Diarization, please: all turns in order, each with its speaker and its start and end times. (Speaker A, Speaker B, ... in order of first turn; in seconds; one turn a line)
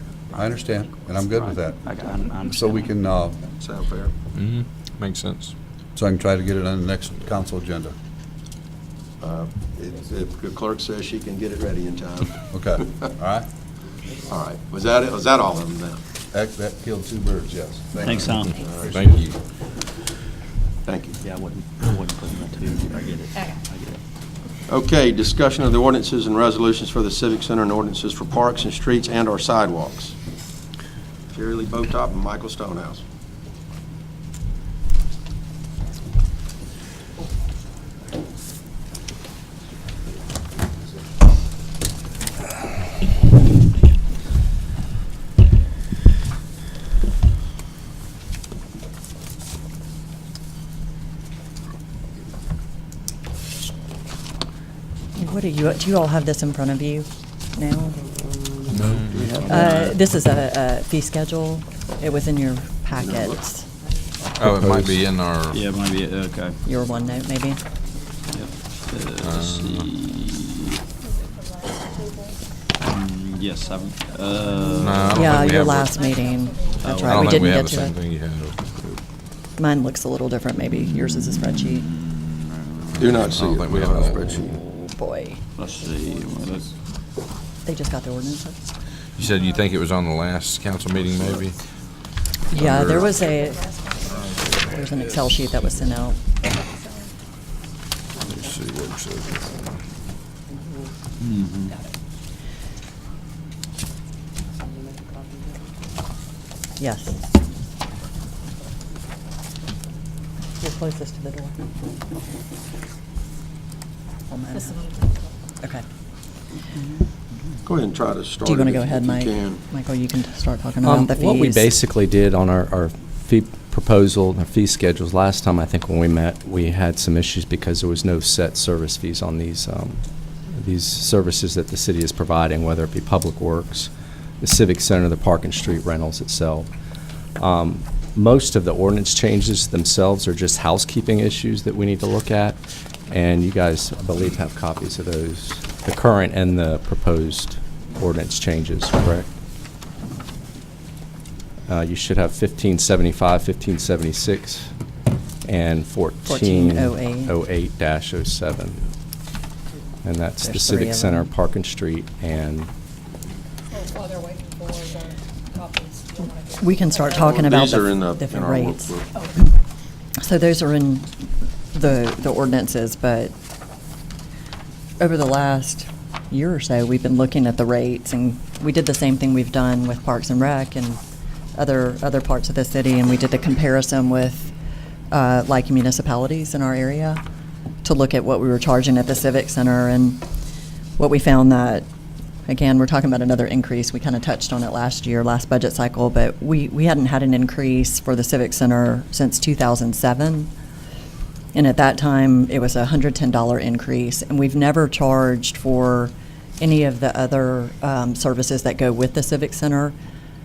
Speaker A: 0.3-3.4
Speaker B: 0.4-1.2
Speaker C: 1.4-2.8
Speaker D: 3.6-4.1
Speaker E: 4.3-5.5
Speaker A: 6.0-7.9
Speaker D: 9.2-12.4
Speaker A: 12.5-13.5
Speaker D: 14.2-16.0
Speaker A: 16.3-19.3
Speaker C: 18.0-18.5
Speaker D: 18.6-18.9
Speaker E: 18.8-19.4
Speaker D: 20.9-21.2
Speaker C: 21.2-24.0
Speaker D: 24.7-30.1
Speaker D: 31.3-33.0
Speaker F: 55.1-58.1
Speaker C: 58.3-60.0
Speaker E: 58.7-59.3
Speaker F: 59.5-63.7
Speaker D: 62.9-63.4
Speaker E: 64.4-65.7
Speaker G: 64.4-65.0
Speaker C: 65.5-66.6
Speaker F: 66.6-67.6
Speaker C: 68.3-70.8
Speaker E: 69.2-69.9
Speaker B: 71.0-72.5
Speaker C: 72.8-75.6
Speaker B: 73.3-75.1
Speaker F: 74.7-77.9
Speaker E: 74.8-76.0
Speaker B: 75.7-77.2
Speaker C: 76.8-77.5
Speaker E: 76.9-78.6
Speaker F: 79.6-81.9
Speaker C: 80.7-83.4
Speaker E: 82.9-84.3
Speaker D: 83.0-84.6
Speaker C: 84.0-84.6
Speaker F: 84.5-85.4
Speaker C: 85.6-86.7
Speaker B: 85.7-86.8
Speaker F: 87.6-88.7
Speaker E: 89.2-91.6
Speaker B: 89.4-89.7
Speaker F: 92.5-93.7
Speaker E: 92.5-93.1
Speaker B: 92.9-94.4
Speaker E: 94.0-95.3
Speaker F: 94.5-96.3
Speaker B: 96.4-97.1
Speaker E: 98.2-99.8
Speaker C: 101.2-101.7
Speaker B: 101.6-101.9
Speaker F: 106.8-107.3
Speaker F: 110.6-111.5
Speaker F: 114.3-115.0
Speaker B: 114.5-115.3
Speaker D: 117.6-119.6
Speaker F: 118.4-121.8
Speaker G: 120.8-133.9
Speaker G: 134.4-136.7
Speaker G: 137.4-149.3
Speaker G: 151.7-154.7
Speaker G: 155.4-158.9
Speaker F: 156.2-157.3
Speaker G: 160.0-162.7
Speaker F: 160.4-161.3
Speaker B: 163.7-167.4
Speaker F: 166.6-169.4
Speaker D: 167.1-169.1
Speaker F: 170.2-173.3
Speaker F: 175.0-181.0
Speaker F: 181.6-184.5
Speaker F: 185.1-187.2
Speaker F: 187.8-190.2
Speaker F: 191.0-191.9
Speaker F: 192.5-200.5
Speaker F: 201.5-209.9